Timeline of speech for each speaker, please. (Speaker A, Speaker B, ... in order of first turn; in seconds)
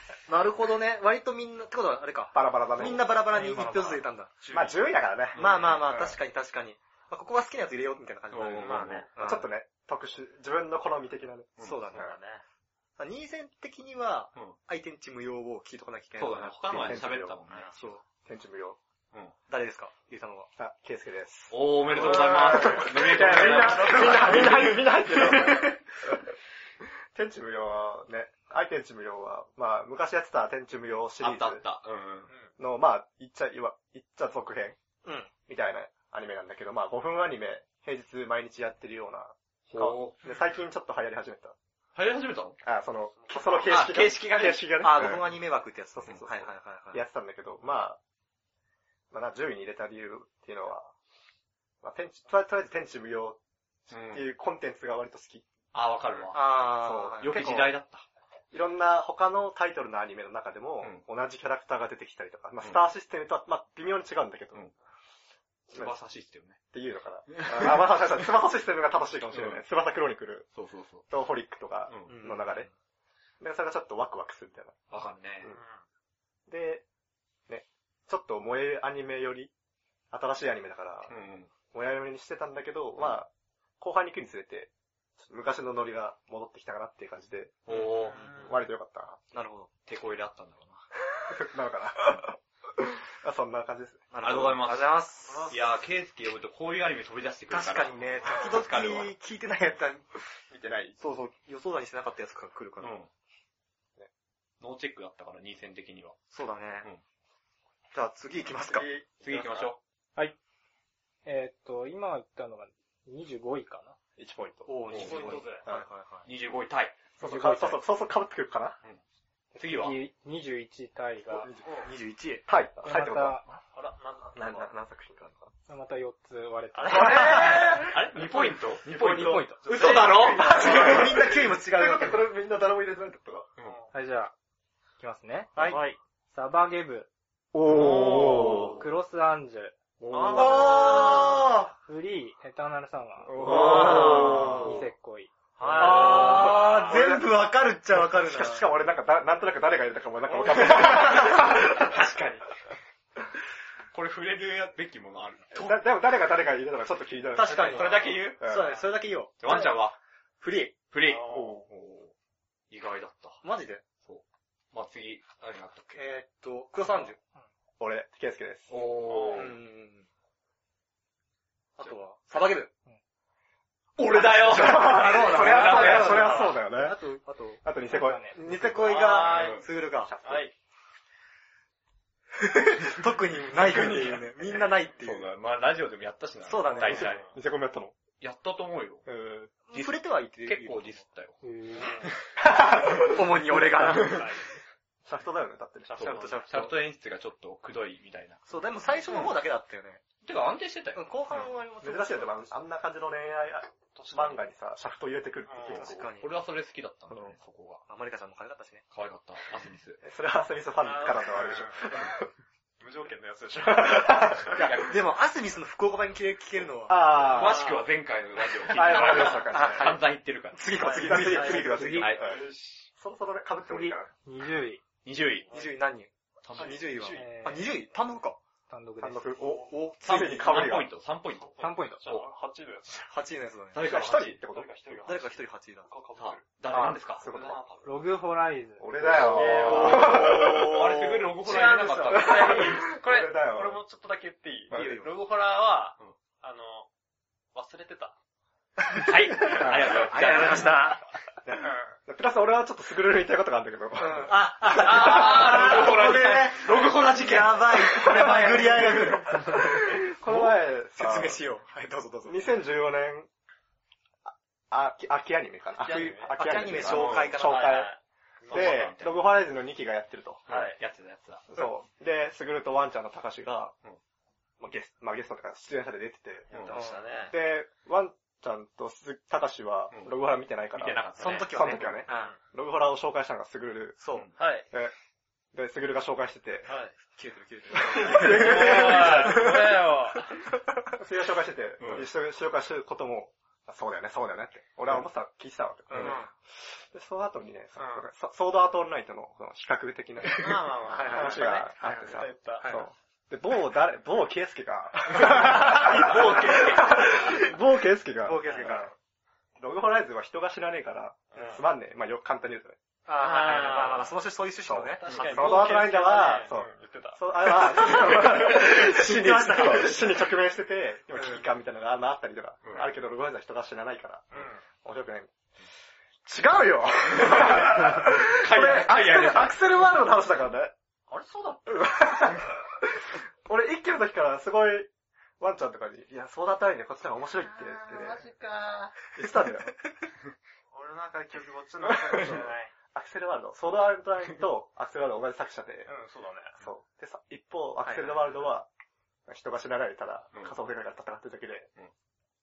Speaker A: 0.3-4.4, 5.3-9.5, 11.6-12.1, 13.0-17.0, 17.8-18.0, 19.5-20.5, 23.5-25.8, 35.0-35.3, 44.7-47.0, 56.3-57.8, 72.1-72.6, 89.3-89.7, 94.1-95.5, 97.5-100.1, 101.0-103.0, 106.3-106.9, 107.9-108.9, 114.7-116.3, 121.8-122.5, 126.9-127.8, 128.8-132.3, 135.6-135.8, 140.3-141.7, 145.8-148.7, 150.4-152.4, 157.3-159.8, 160.4-160.8, 163.4-163.8, 165.9-167.2, 169.3-170.1, 171.8-172.7, 174.5-177.6, 178.3-180.2, 182.4-185.3, 186.4-187.2, 189.7-191.0, 192.8-194.2, 196.1-196.7, 198.4-200.0, 200.9-202.5, 205.8-206.3, 207.9-208.8, 214.5-217.2, 218.8-222.0, 225.5-228.4, 229.4-230.7, 233.1-234.0, 235.1-235.9, 236.7-237.0, 239.4-241.3, 244.7-245.1, 248.9-251.0, 254.0-262.5, 266.3-267.9, 276.7-277.0, 281.2-282.3, 284.0-284.3, 287.1-289.5, 295.9-296.3, 300.9-302.9, 308.2-308.9, 313.1-315.7, 317.7-320.2, 347.9-348.2
Speaker B: 2.3-3.1, 4.5-6.2, 9.2-12.1, 16.7-17.4, 18.2-18.8, 20.6-26.0, 27.1-31.6, 32.6-34.8, 35.5-41.6, 42.6-45.4, 46.0-48.0, 49.1-50.9, 51.8-55.5, 56.8-57.3, 58.5-64.6, 66.7-70.5, 71.1-72.7, 73.4-74.8, 76.5-76.9, 77.5-79.5, 80.1-81.1, 81.7-83.3, 83.8-87.7, 88.4-89.2, 91.3-94.1, 100.5-101.0, 108.7-109.7, 114.2-115.1, 117.2-118.8, 121.3-121.7, 122.5-123.4, 124.3-125.5, 128.8-133.5, 137.5-138.8, 140.0-141.0, 143.2-144.8, 145.8-147.3, 147.9-151.9, 155.5-158.8, 167.8-168.7, 174.2-177.0, 177.6-178.7, 180.1-180.5, 186.8-187.9, 189.1-189.5, 192.4-193.9, 195.1-196.4, 201.8-206.1, 210.0-212.3, 213.7-214.6, 216.9-217.6, 218.7-219.9, 220.8-224.1, 229.0-230.9, 233.8-234.7, 236.7-237.6, 238.8-240.8, 242.1-243.8, 244.7-245.0, 251.4-254.4, 255.0-255.6, 258.0-261.4, 262.3-263.3, 264.2-267.9, 268.5-270.5, 271.5-273.8, 274.6-276.5, 277.3-284.0, 285.5-286.7, 287.9-289.8, 290.9-308.9, 309.6-312.8, 314.7-325.3, 326.2-330.7, 331.7-334.9, 335.4-338.3, 339.1-339.7, 341.9-345.9, 346.6-348.7, 349.3-351.7
Speaker C: 3.4-4.7, 8.5-9.1, 11.9-12.4, 17.5-17.7, 22.0-24.5, 32.3-32.5, 43.1-43.8, 75.5-75.8, 87.7-88.6, 95.3-95.6, 114.9-115.7, 121.6-121.9, 123.7-124.7, 126.7-127.8, 129.6-130.9, 133.6-133.9, 135.6-136.0, 140.1-141.5, 143.5-144.6, 145.6-147.0, 161.0-161.6, 169.0-169.5, 178.7-179.6, 180.2-180.5, 186.8-187.4, 191.8-192.1, 193.9-194.4, 195.9-196.5, 203.9-204.5, 205.4-205.9, 210.8-212.0, 212.8-214.7, 217.2-217.9, 220.8-222.9, 225.4-225.7, 226.6-227.4, 231.3-233.2, 234.4-236.4, 237.2-238.1, 239.1-240.7, 241.4-246.9, 247.5-248.2, 265.8-268.9, 270.5-270.8, 276.5-277.4, 282.1-282.4, 284.4-284.7, 286.6-286.9, 288.0-290.4, 297.8-298.1, 300.3-302.8, 305.8-307.4, 308.5-308.8, 311.3-311.6, 313.2-314.1, 315.0-317.9, 324.3-324.6, 331.1-332.0, 337.9-338.9, 340.7-342.7, 345.9-346.6
Speaker D: 5.3-5.9, 8.3-9.1, 11.6-11.8, 16.2-18.0, 21.5-24.5, 31.2-32.3, 39.7-40.2, 42.0-42.6, 43.7-44.7, 53.9-54.2, 55.7-56.6, 57.2-58.0, 65.7-66.6, 67.3-68.1, 69.3-69.6, 70.5-71.1, 71.9-72.1, 74.9-75.5, 81.1-81.5, 87.7-88.5, 89.9-90.8, 94.2-99.1, 102.8-103.1, 104.6-106.2, 109.2-109.8, 114.9-115.4, 116.2-117.0, 119.6-120.0, 127.2-131.3, 137.7-138.5, 143.4-144.7, 153.9-155.8, 157.4-158.5, 159.4-160.0, 160.9-162.1, 162.7-163.4, 164.0-166.0, 168.7-169.6, 174.0-176.5, 179.1-179.6, 183.7-184.2, 184.9-187.3, 188.2-189.1, 189.7-191.4, 195.9-198.4, 199.0-199.3, 200.2-201.1, 206.2-207.8, 208.9-210.0, 217.2-220.8, 222.0-222.2, 225.0-225.5, 226.4-227.2, 230.1-232.3, 233.7-234.5, 236.2-237.3, 239.1-242.8, 248.9-251.0, 254.6-259.1, 266.8-267.4, 268.5-269.2, 270.5-271.5, 280.7-282.0, 291.8-292.1, 305.2-307.5, 315.1-315.3, 327.1-329.6
Speaker E: 111.2-114.0, 117.2-117.8, 119.6-121.5, 122.8-123.6, 125.7-127.7, 133.9-134.3, 135.0-135.8, 136.3-137.1, 138.6-139.8, 141.8-145.3, 177.9-178.4, 191.4-192.0, 221.7-222.1, 223.6-224.8, 227.1-227.7, 228.7-229.4, 231.6-232.0, 237.8-239.0